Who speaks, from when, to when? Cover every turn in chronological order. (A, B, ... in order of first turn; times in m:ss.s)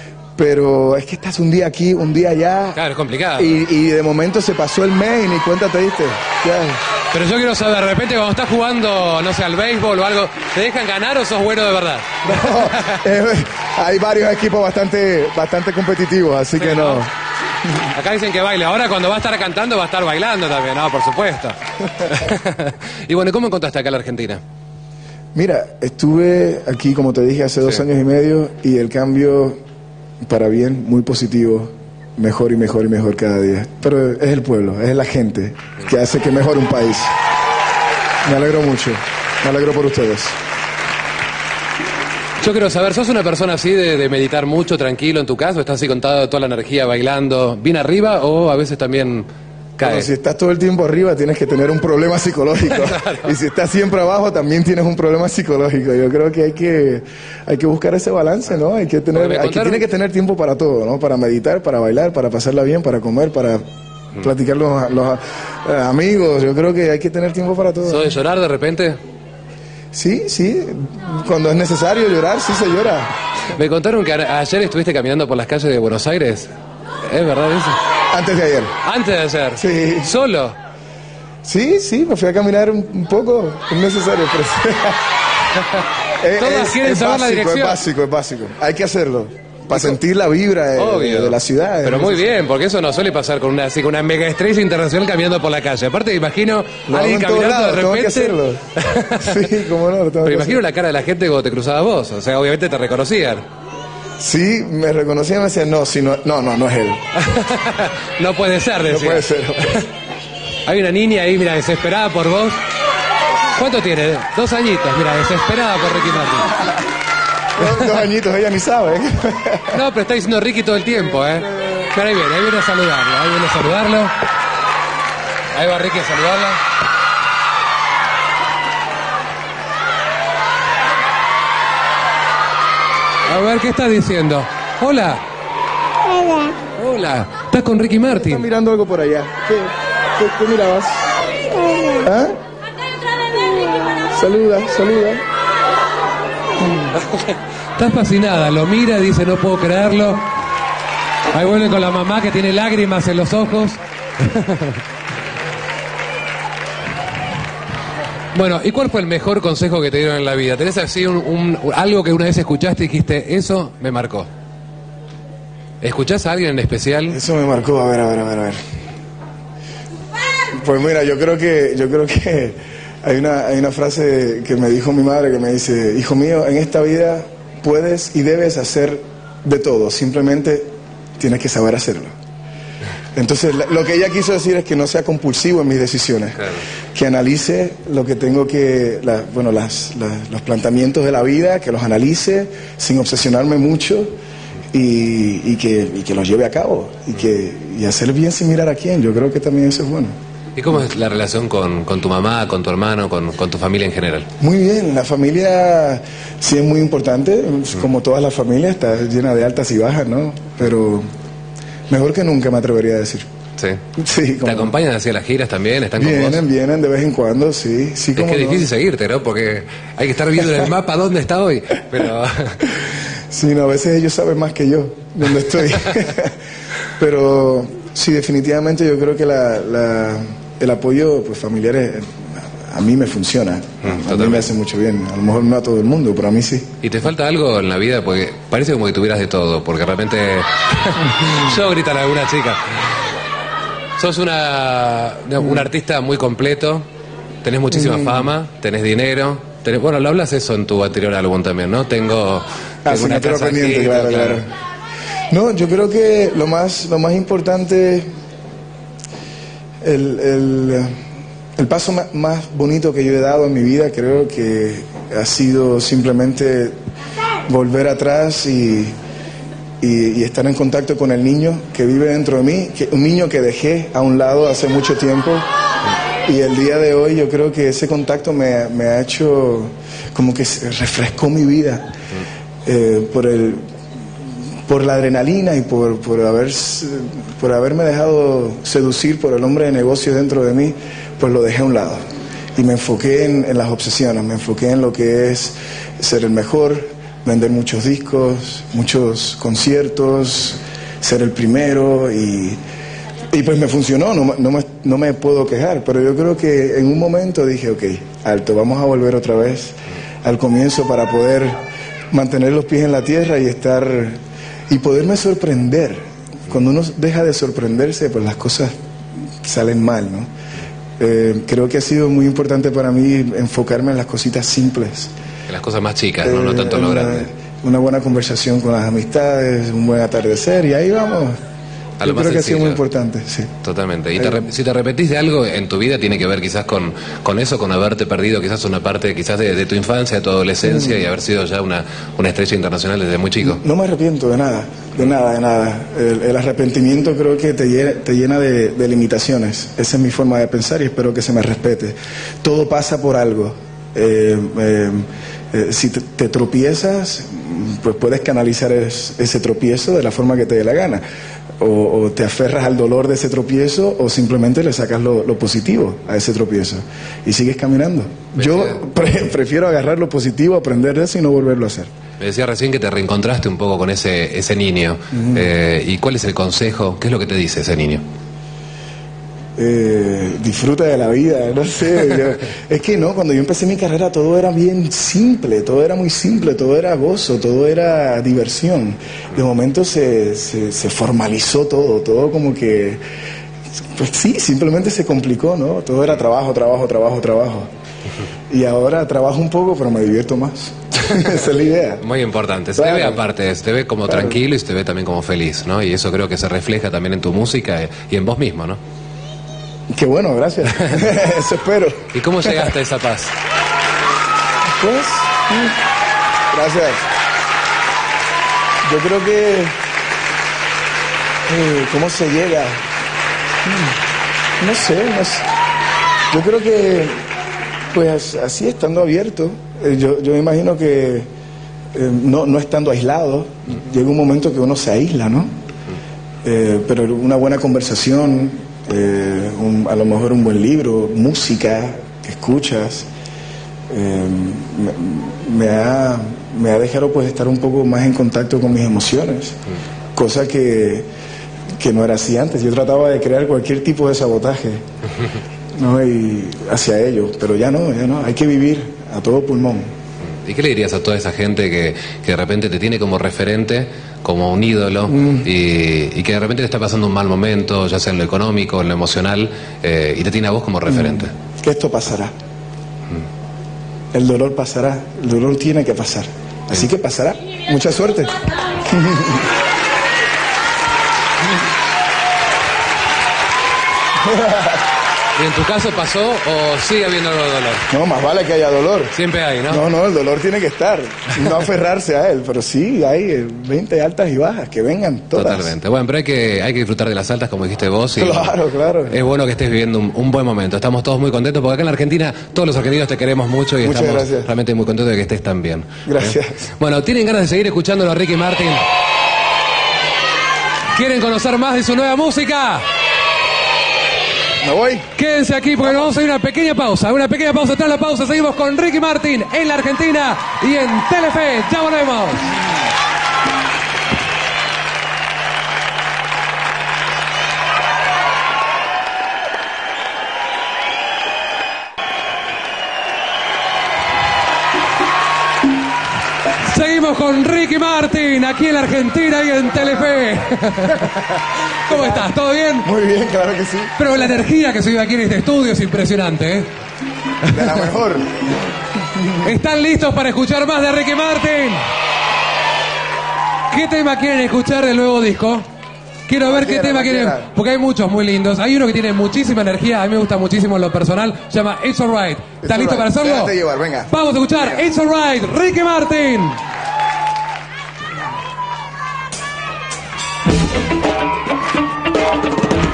0:00.4-0:02.8 A
0:02.8-0:03.6 B
0:03.4-0:06.8 A
0:07.1-0:13.0 B
0:12.2-0:17.1 A
0:16.6-0:17.1 B
0:17.8-0:24.4 B
0:25.3-0:29.6 A
0:30.2-0:37.1 A
0:38.2-0:40.4 A
0:42.4-0:49.3 B
0:49.8-0:50.1 B
0:49.8-1:03.6 A
0:52.7-0:53.3 B
0:59.1-0:59.8 B
1:04.2-1:08.0 A
1:07.8-1:09.0 B
1:09.9-1:13.1 A
1:13.5-1:16.5 B
1:17.0-1:17.8 B
1:18.1-1:18.8 A
1:18.8-1:20.5 B
1:19.6-1:20.1 A
1:21.4-1:25.0 A
1:26.2-1:32.3 A
1:26.4-1:27.8 B
1:30.8-1:39.4 B
1:36.9-1:38.6 A
1:39.2-1:40.6 A
1:40.2-1:43.4 B
1:44.2-1:47.0 A
1:47.1-1:49.8 B
1:48.9-1:49.8 A
1:50.6-1:52.6 B
1:53.5-1:56.5 B
1:56.5-1:56.8 A
1:57.6-1:59.8 A
1:59.7-2:04.1 B
2:01.6-2:01.8 A
2:05.5-2:06.6 B
2:13.2-2:15.2 B
2:16.8-2:18.4 B
2:18.1-2:21.1 A
2:21.8-2:22.4 A
2:24.1-2:25.2 A
2:26.6-2:26.9 A
2:26.9-2:30.3 B
2:31.3-2:34.8 B
2:38.3-2:44.3 B
2:45.8-2:47.2 B
2:47.1-2:48.6 A
2:50.5-3:02.1 A
3:03.1-3:14.1 A
3:14.7-3:20.1 A
3:20.6-3:24.3 B
3:24.4-3:31.1 A
3:31.9-3:33.2 A
3:34.0-3:34.8 A
3:34.4-3:36.4 B
3:36.0-3:38.7 A
3:38.1-3:42.6 B
3:43.3-3:46.4 A
3:47.0-3:56.7 A
3:53.8-3:54.5 B
3:56.8-4:02.8 B
4:04.0-4:06.8 B
4:07.4-4:14.4 B
4:07.7-4:08.2 A
4:12.8-4:14.5 A
4:15.3-4:18.1 A
4:19.8-4:20.9 A
4:21.6-4:26.7 A
4:27.4-4:28.9 A
4:29.8-4:35.4 A
4:36.2-4:41.9 A
4:42.6-4:43.6 A
4:44.7-4:52.0 A
4:52.6-5:02.6 A
5:03.3-5:11.6 A
5:12.1-5:14.2 A
5:14.7-5:18.7 A
5:19.4-5:20.3 A
5:21.0-5:25.1 A
5:25.5-5:27.3 B
5:26.2-5:31.4 A
5:32.0-5:32.8 B
5:32.0-5:33.5 A
5:33.6-5:43.6 B
5:34.1-5:34.5 A
5:40.6-5:41.0 A
5:43.4-6:01.0 A
6:01.6-6:11.9 A
6:08.4-6:08.7 B
6:12.2-6:18.0 B
6:15.1-6:15.4 A
6:19.6-6:33.0 A
6:34.0-6:37.7 A
6:38.5-6:42.0 A
6:42.0-6:48.8 B
6:42.8-6:43.2 A
6:44.0-6:44.4 A
6:49.9-6:52.6 A
6:52.1-6:53.3 B
6:54.8-6:55.8 A
6:56.5-6:57.1 A
6:58.8-6:59.8 A
7:01.5-7:02.8 A
7:03.6-7:04.0 A
7:04.6-7:05.4 A
7:06.3-7:07.2 A
7:07.9-7:11.3 A
7:11.9-7:15.5 A
7:16.4-7:23.1 A
7:23.9-7:29.6 A
7:30.1-7:31.1 A
7:31.8-7:34.8 A
7:35.7-7:39.9 A
7:40.4-7:51.3 B
7:45.1-7:45.4 A
7:50.9-7:52.3 A
7:54.1-7:59.5 A
8:04.2-8:04.8 A
8:05.4-8:07.9 B
8:07.9-8:09.1 A
8:09.1-8:09.8 B
8:09.7-8:15.7 A
8:15.3-8:18.5 B
8:18.2-8:19.2 A
8:19.1-8:28.8 B
8:23.8-8:24.5 A
8:26.0-8:26.7 A
8:30.9-8:32.8 B
8:34.6-8:35.1 A
8:35.2-8:42.5 B
8:56.6-9:01.2 B
9:01.8-9:02.9 B
9:01.9-9:02.3 A
9:02.8-9:04.4 A
9:04.0-9:06.7 B
9:07.4-9:07.8 B
9:07.5-9:09.5 A
9:09.4-9:11.8 B
9:13.7-9:15.6 B
9:16.3-9:23.5 B
9:16.4-9:17.5 A
9:22.6-9:24.8 A
9:24.1-9:26.6 B